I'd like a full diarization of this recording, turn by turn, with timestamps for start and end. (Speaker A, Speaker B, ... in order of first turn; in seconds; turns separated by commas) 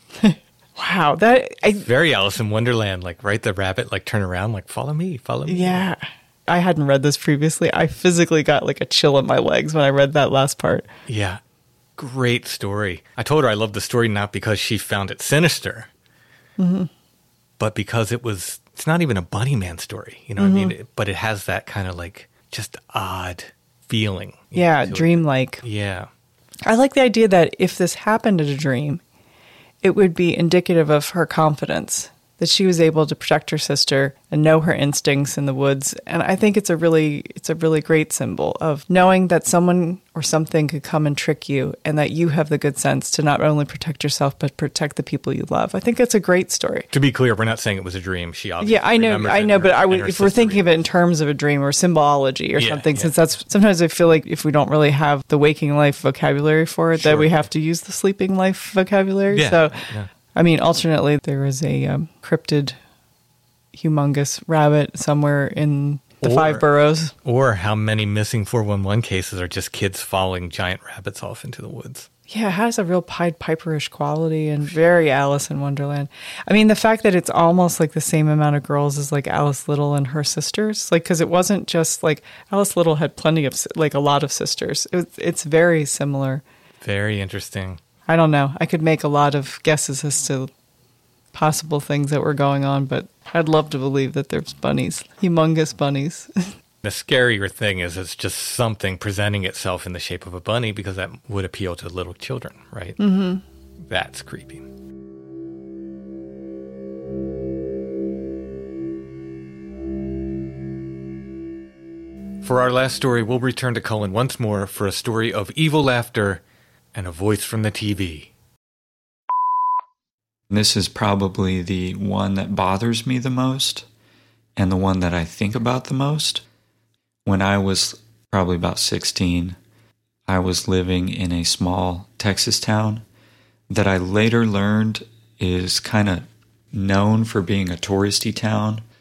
Speaker A: 0.2-1.9, Speaker B: 1.8-5.9, Speaker A: 5.5-10.9, Speaker B: 11.1-11.4, Speaker B: 12.0-15.9, Speaker A: 16.6-16.9, Speaker B: 17.6-26.1, Speaker A: 20.4-20.7, Speaker A: 24.5-25.6, Speaker A: 26.6-29.0, Speaker A: 29.8-46.9, Speaker B: 46.9-50.7, Speaker A: 48.6-59.8, Speaker B: 52.6-53.1, Speaker B: 57.0-57.4, Speaker B: 59.3-60.1, Speaker A: 60.4-62.8, Speaker A: 63.8-67.1, Speaker B: 66.2-66.6, Speaker B: 67.2-72.1, Speaker A: 72.3-86.4, Speaker B: 86.8-87.8, Speaker A: 88.1-90.5, Speaker A: 91.3-96.5, Speaker B: 96.8-103.0, Speaker A: 103.0-103.4, Speaker B: 103.9-104.6, Speaker B: 112.4-116.4, Speaker B: 116.9-118.3, Speaker C: 120.5-123.9, Speaker C: 124.6-126.4, Speaker C: 127.2-129.6, Speaker C: 130.3-133.0, Speaker C: 133.7-138.8